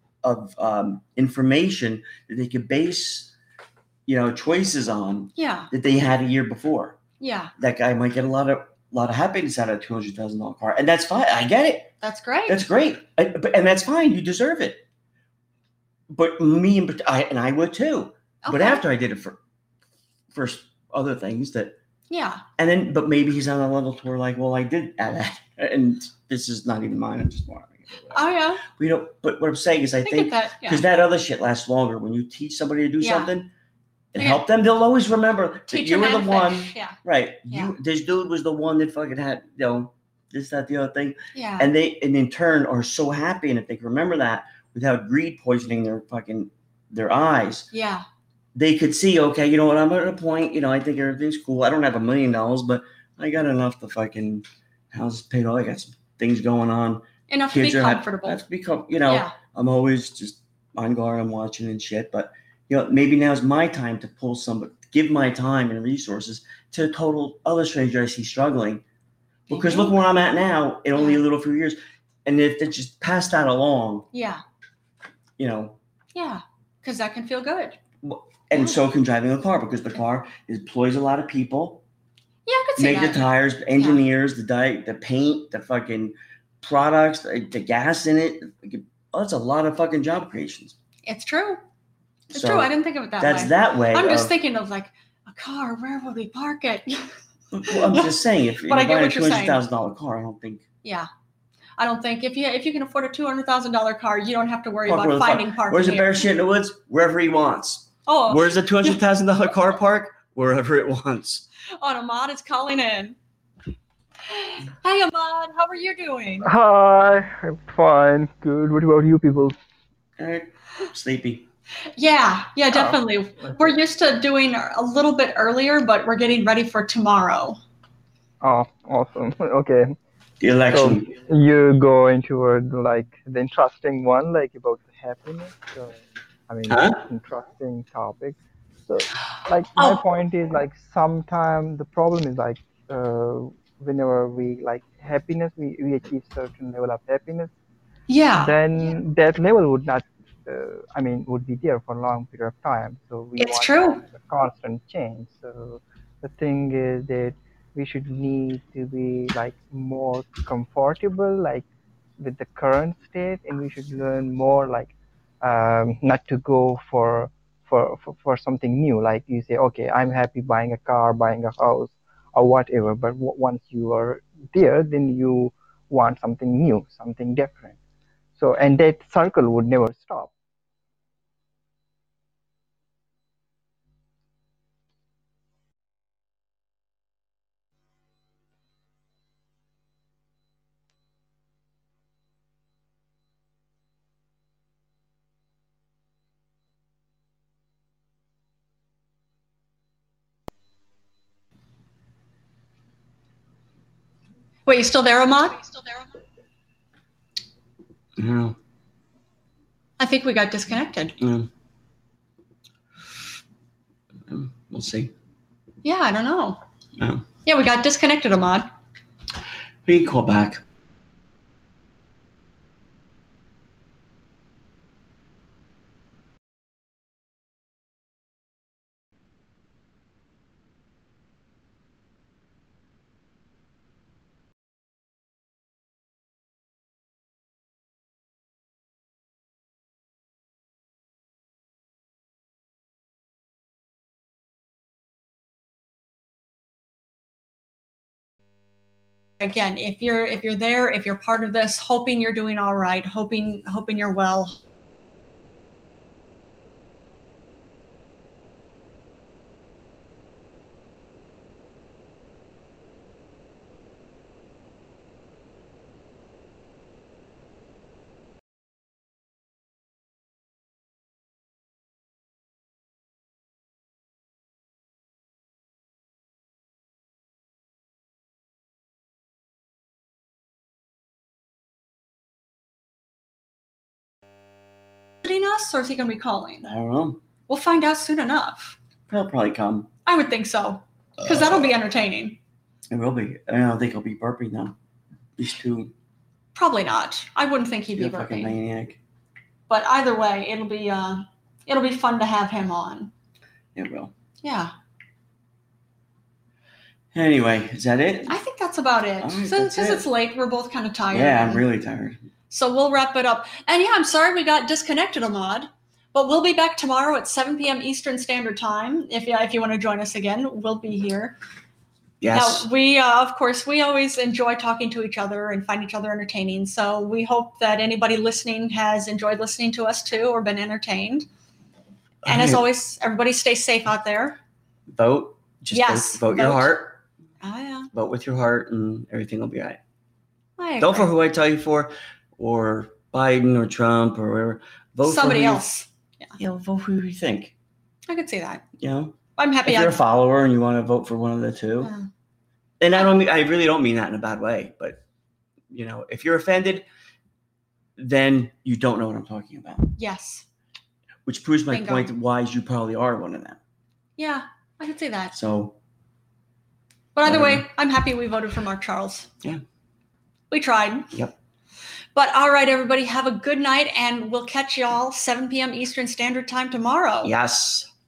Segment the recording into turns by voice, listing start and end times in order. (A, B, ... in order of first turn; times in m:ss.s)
0:00.2-0:03.3 A
0:04.0-0:07.0 A
0:05.4-0:05.7 B
0:07.2-0:07.5 B
0:07.6-0:11.9 A
0:12.0-0:12.6 B
0:12.5-0:14.8 A
0:16.1-0:19.4 A
0:18.4-0:18.8 B
0:20.3-0:21.8 A
0:22.1-0:22.4 B
0:22.6-0:33.5 A
0:28.1-0:28.6 B
0:30.0-0:30.8 B
0:33.0-0:33.3 B
0:34.1-0:47.7 A
0:34.2-0:34.4 B
0:35.7-0:37.0 B
0:41.3-0:41.7 B
0:47.7-0:48.0 B
0:48.5-1:08.8 A
0:57.3-0:58.4 B
0:59.0-0:59.3 B
1:09.5-1:14.1 A
1:09.5-1:10.0 B
1:11.0-1:11.2 B
1:14.1-1:14.4 B
1:15.4-1:15.8 A
1:16.1-1:17.8 B
1:18.0-1:21.8 A
1:22.4-1:24.0 B
1:22.8-1:30.8 A
1:31.0-1:31.6 B
1:32.3-1:34.3 A
1:32.3-1:37.1 B
1:37.5-1:40.6 A
1:37.7-1:38.1 B
1:38.7-1:39.6 B
1:40.8-1:41.1 B
1:41.8-1:46.3 B
1:44.9-1:51.4 A
1:48.0-1:49.0 B
1:51.8-1:53.2 B
1:54.3-1:56.5 B
1:56.4-1:59.5 C
2:00.2-2:01.4 A
2:02.0-2:07.6 B
2:02.7-2:03.0 C
2:08.4-2:10.0 C
2:10.4-2:11.1 A
2:10.7-2:16.0 C
2:16.5-2:27.5 C
2:16.7-2:17.0 A
2:28.1-2:28.6 B
2:28.4-2:41.6 C
2:33.4-2:34.0 B
2:42.2-2:57.8 C
2:58.4-3:00.3 C
3:24.6-3:25.8 B
3:28.2-3:28.6 A
3:30.0-3:31.2 B
3:31.2-3:31.5 A
3:34.3-3:35.1 A
3:35.8-3:36.6 B
3:37.0-3:37.2 A
3:37.4-3:38.7 B
3:39.8-3:40.6 A
4:09.4-4:14.6 B
4:45.2-4:46.7 B
4:46.6-4:47.2 A
4:47.5-4:48.8 B
4:49.1-4:49.9 A
4:50.0-4:52.4 B
4:52.9-4:54.8 A
4:55.4-4:55.9 A
4:56.5-4:58.6 B
4:58.0-4:59.0 A
4:59.7-5:03.1 B
5:03.7-5:04.1 A
5:04.4-5:04.7 B
5:07.1-5:08.4 A
5:08.3-5:11.6 B
5:09.2-5:10.1 A
5:11.1-5:12.2 A
5:12.5-5:21.4 B
5:22.2-5:22.7 A
5:22.3-5:31.2 B
5:32.2-5:32.6 A
5:32.2-5:34.4 B
5:34.9-5:37.0 A
5:35.7-5:36.7 B
5:37.4-5:37.9 B
5:37.9-5:39.8 A
5:40.6-5:41.1 B
5:40.8-5:45.6 A
5:45.0-5:46.4 B
5:46.4-5:47.5 A
5:48.1-5:48.6 B
5:48.8-5:51.9 A
5:49.4-5:50.0 B
5:51.8-5:52.1 B
5:52.8-5:55.0 A
5:55.7-5:56.8 A
5:58.0-5:59.9 A
6:00.0-6:00.4 B
6:01.2-6:03.6 A
6:01.7-6:02.1 B
6:04.2-6:05.3 B
6:05.3-6:05.8 A
6:07.1-6:09.3 B
6:07.2-6:07.6 A
6:10.5-6:11.1 B
6:12.1-6:17.3 B
6:17.2-6:17.9 A